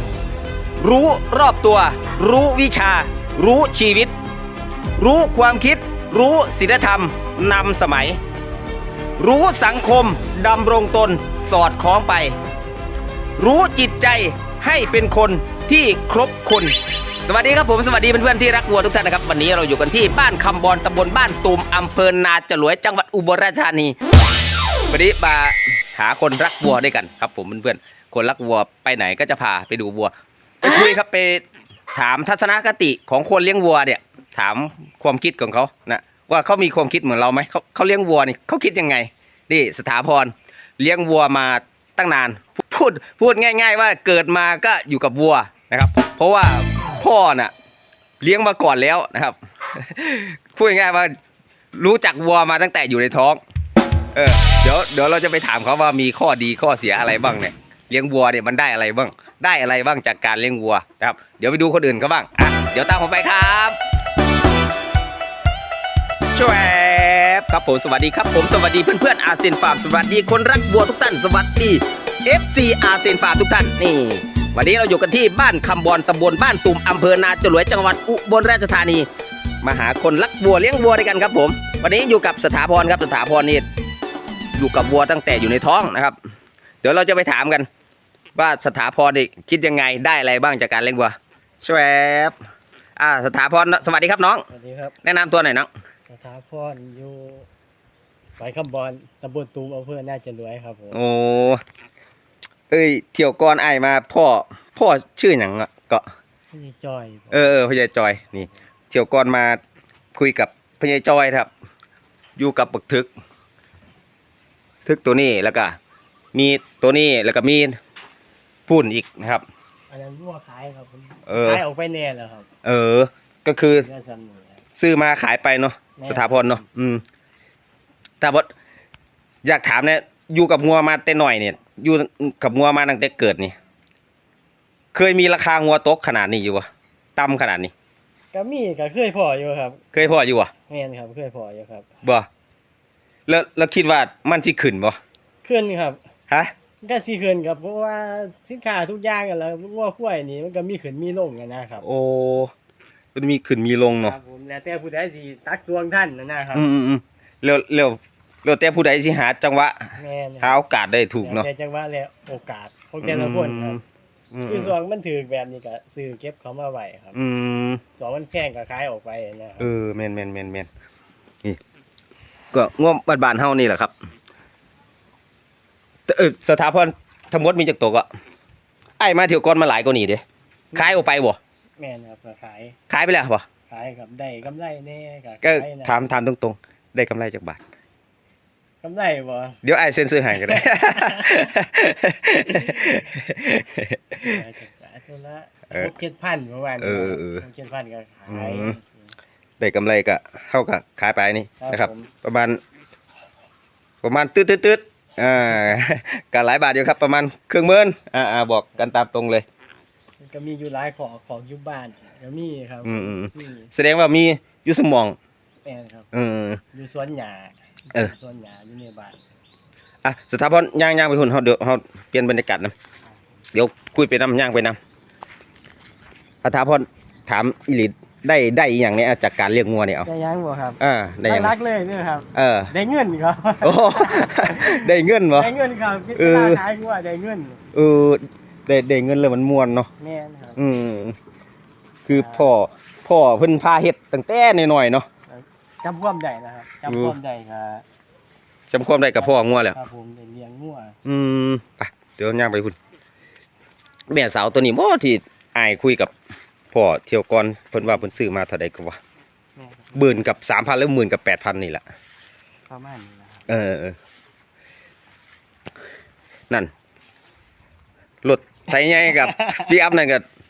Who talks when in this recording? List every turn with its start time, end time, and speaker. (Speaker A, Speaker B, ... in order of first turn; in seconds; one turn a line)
Speaker A: 0.8-4.1
Speaker A: 5.0-8.2
Speaker A: 9.2-12.4
Speaker A: 13.4-23.9
Speaker A: 24.9-47.5
Speaker A: 48.2-51.1
Speaker A: 51.7-53.4
Speaker A: 54.1-63.8
Speaker A: 66.3-79.1
Speaker A: 79.6-83.7
Speaker A: 84.5-86.2
Speaker A: 86.8-87.7
Speaker A: 88.3-92.3
Speaker A: 93.0-94.4
Speaker B: 94.5-94.9
Speaker A: 95.0-95.7
Speaker B: 96.0-97.5
Speaker B: 98.4-101.0
Speaker A: 100.9-101.6
Speaker A: 102.7-106.0
Speaker B: 106.5-107.5
Speaker A: 107.3-109.6
Speaker A: 110.1-111.5
Speaker A: 112.4-113.1
Speaker A: 114.8-115.8
Speaker A: 116.3-117.8
Speaker A: 118.7-119.4
Speaker B: 119.9-122.5
Speaker A: 121.3-121.6
Speaker A: 122.6-123.9
Speaker B: 123.7-124.6
Speaker A: 124.8-127.0
Speaker B: 126.0-126.6
Speaker A: 128.2-128.5
Speaker A: 129.4-133.5
Speaker A: 134.9-137.7
Speaker B: 138.3-139.9
Speaker A: 139.9-140.5
Speaker B: 140.7-141.9
Speaker A: 143.3-145.0
Speaker B: 145.4-146.0
Speaker B: 146.8-151.8
Speaker A: 151.8-152.5
Speaker A: 153.1-154.2
Speaker B: 154.0-156.7
Speaker A: 156.5-161.5
Speaker B: 160.0-160.6
Speaker B: 161.2-163.8
Speaker A: 163.0-163.8
Speaker A: 164.3-164.7
Speaker B: 164.5-167.2
Speaker A: 167.1-167.8
Speaker B: 168.0-169.7
Speaker A: 169.6-170.7
Speaker A: 172.5-173.9
Speaker A: 176.1-178.1
Speaker A: 179.0-180.2
Speaker B: 180.7-181.0
Speaker A: 180.7-181.4
Speaker B: 181.8-182.8
Speaker A: 182.9-183.4
Speaker B: 183.7-186.0
Speaker A: 185.4-187.6
Speaker B: 188.8-189.6
Speaker A: 189.6-194.4
Speaker B: 190.3-191.5
Speaker B: 192.4-193.1
Speaker B: 194.2-199.1
Speaker A: 196.8-197.4
Speaker A: 198.3-198.8
Speaker A: 199.6-202.6
Speaker B: 201.6-202.1
Speaker A: 204.0-209.4
Speaker B: 210.2-213.7
Speaker A: 212.8-215.2
Speaker B: 215.6-216.1
Speaker A: 216.1-216.6
Speaker B: 216.7-219.2
Speaker A: 220.0-222.7
Speaker A: 223.5-224.8
Speaker A: 226.4-230.1
Speaker B: 230.1-237.6
Speaker A: 230.8-231.5
Speaker A: 232.3-232.7
Speaker A: 233.6-235.5
Speaker A: 236.2-236.6
Speaker A: 237.7-239.9
Speaker B: 240.0-240.6
Speaker A: 240.6-241.2
Speaker A: 242.1-245.1
Speaker B: 242.1-242.5
Speaker B: 245.3-247.8
Speaker A: 246.9-247.1
Speaker A: 248.7-249.8
Speaker B: 249.1-250.9
Speaker A: 251.0-252.8
Speaker A: 254.1-256.1
Speaker A: 256.7-259.0
Speaker B: 259.6-260.2
Speaker A: 259.9-261.8
Speaker B: 262.7-263.5
Speaker A: 263.5-263.9
Speaker A: 268.2-270.2
Speaker B: 269.0-269.7